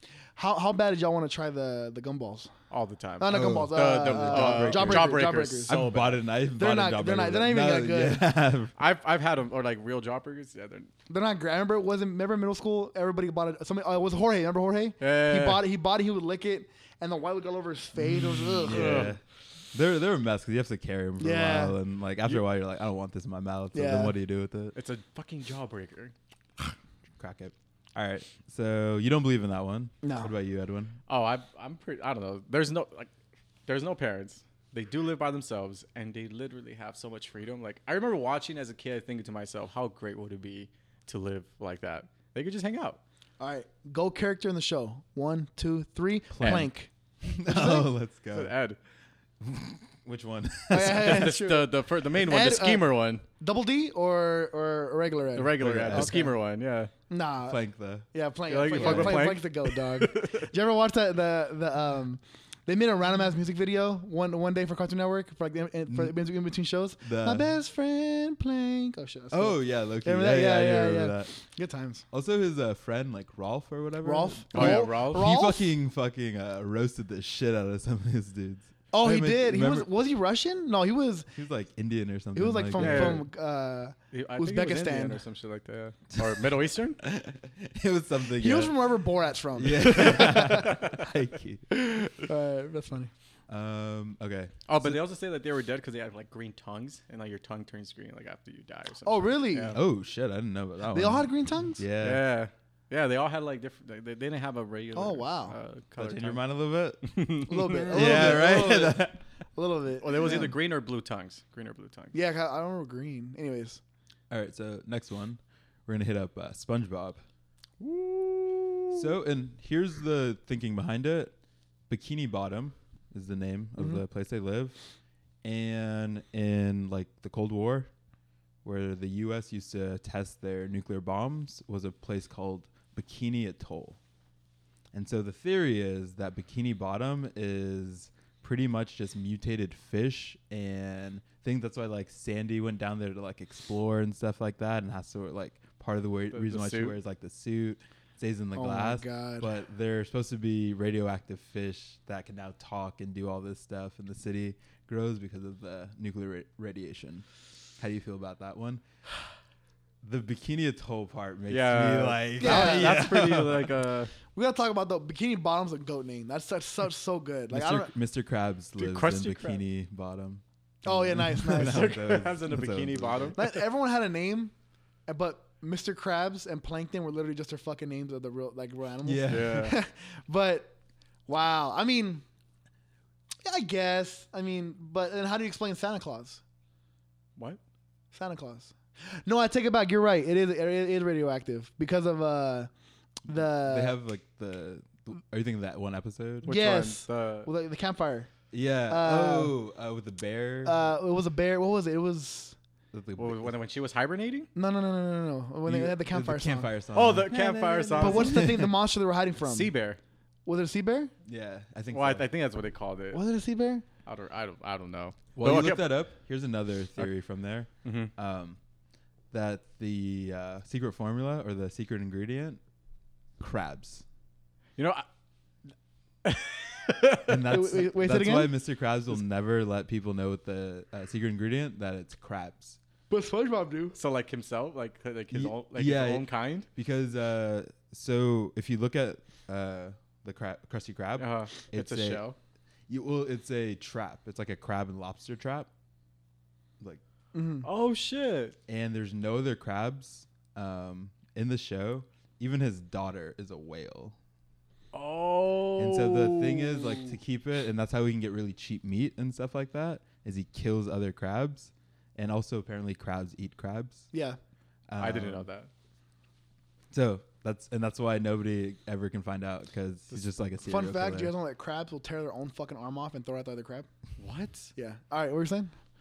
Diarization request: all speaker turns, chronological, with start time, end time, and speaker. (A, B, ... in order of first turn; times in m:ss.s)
0:00.4-0:02.5 A
0:02.7-0:06.2 B
0:03.2-0:05.8 A
0:03.3-0:08.7 C
0:06.6-0:08.3 A
0:08.8-0:10.9 B
0:11.1-0:19.1 A
0:15.0-0:15.6 B
0:18.0-0:19.2 C
0:18.6-0:19.1 B
0:19.7-0:24.7 C
0:21.2-0:21.8 A
0:23.7-0:24.1 A
0:24.7-0:26.1 B
0:27.2-0:31.0 C
0:30.0-0:30.3 A
0:31.1-0:33.1 B
0:33.7-0:43.0 B
0:43.4-0:46.9 A
0:46.3-0:46.7 C
0:47.2-0:48.5 C
0:47.4-0:47.9 A
0:48.3-0:48.8 B
0:49.4-0:51.3 C
0:50.7-0:56.3 A
0:50.8-0:53.2 B
0:55.3-0:56.9 B
0:55.6-0:56.2 C
0:57.1-0:57.6 A
0:57.4-0:58.1 C
0:58.1-1:12.0 A
0:58.5-1:00.5 B
0:58.6-0:59.3 C
1:05.9-1:06.2 C
1:07.0-1:07.5 C
1:09.3-1:11.3 C
1:12.1-1:19.9 C
1:14.0-1:15.7 A
1:14.5-1:15.3 B
1:18.9-1:21.3 A
1:21.4-1:23.2 C
1:22.3-1:25.2 A
1:22.8-1:23.2 B
1:24.1-1:27.0 B
1:26.2-1:26.4 C
1:27.0-1:28.8 C
1:28.4-1:31.0 A
1:29.6-1:32.1 C
1:32.0-1:33.1 A
1:33.5-1:35.0 C
1:34.7-1:39.8 B
1:39.0-1:39.8 A
1:39.7-1:42.3 C
1:40.9-1:41.8 A
1:42.0-1:46.4 B
1:44.9-1:45.5 A
1:46.0-1:49.2 C
1:47.0-1:48.4 B
1:47.4-1:50.5 A
1:50.0-1:52.2 B
1:52.1-1:53.8 A
1:54.3-1:57.2 C
1:57.8-1:59.0 B
1:58.9-2:01.3 C
2:01.9-2:04.8 C
2:05.4-2:07.9 C
2:08.6-2:14.0 C
2:14.9-2:37.2 C
2:26.3-2:27.0 B
2:28.5-2:29.5 A
2:37.8-2:38.8 C
2:40.0-2:43.7 C
2:41.5-2:44.1 B
2:42.4-2:43.1 A
2:44.3-2:47.9 A
2:47.5-2:53.4 C
2:48.8-2:49.6 B
2:50.8-2:51.9 A
2:51.5-2:53.6 B
2:53.4-2:54.5 A
2:55.1-3:00.7 A
2:59.0-2:59.7 C
2:59.3-2:59.8 B
3:01.3-3:02.2 A
3:03.4-3:06.4 A
3:08.1-3:12.7 A
3:13.2-3:14.0 A
3:13.3-3:16.5 C
3:16.4-3:17.5 B
3:16.4-3:18.3 A
3:18.5-3:20.8 C
3:18.9-3:19.6 A
3:20.6-3:22.5 A
3:22.9-3:23.5 C
3:23.2-3:24.5 B
3:24.5-3:26.7 A
3:25.6-3:28.7 C
3:26.9-3:28.5 B
3:28.0-3:29.7 A
3:29.4-3:30.0 B
3:30.4-3:31.1 A
3:31.2-3:32.2 C
3:31.9-3:33.2 B
3:33.1-3:33.8 A
3:34.0-3:36.0 B
3:35.3-3:38.6 C
3:37.8-3:38.1 B
3:39.3-3:42.6 C
3:43.4-3:44.0 C
3:44.8-3:45.0 B
3:46.2-3:47.3 B
3:47.3-3:52.8 C
3:47.4-3:48.5 A
3:53.1-3:54.0 A
3:53.9-3:56.7 B
3:55.3-4:02.2 C
4:01.2-4:02.4 B
4:02.9-4:05.7 C
4:07.3-4:07.7 A
4:07.6-4:08.6 B
4:08.7-4:14.2 C
4:14.9-4:17.1 B
4:15.8-4:24.1 C
4:24.1-4:24.4 A
4:24.9-4:25.4 C
4:25.0-4:25.7 B
4:26.9-4:31.3 C
4:30.6-4:33.9 A
4:34.2-4:34.7 B
4:34.8-4:35.7 A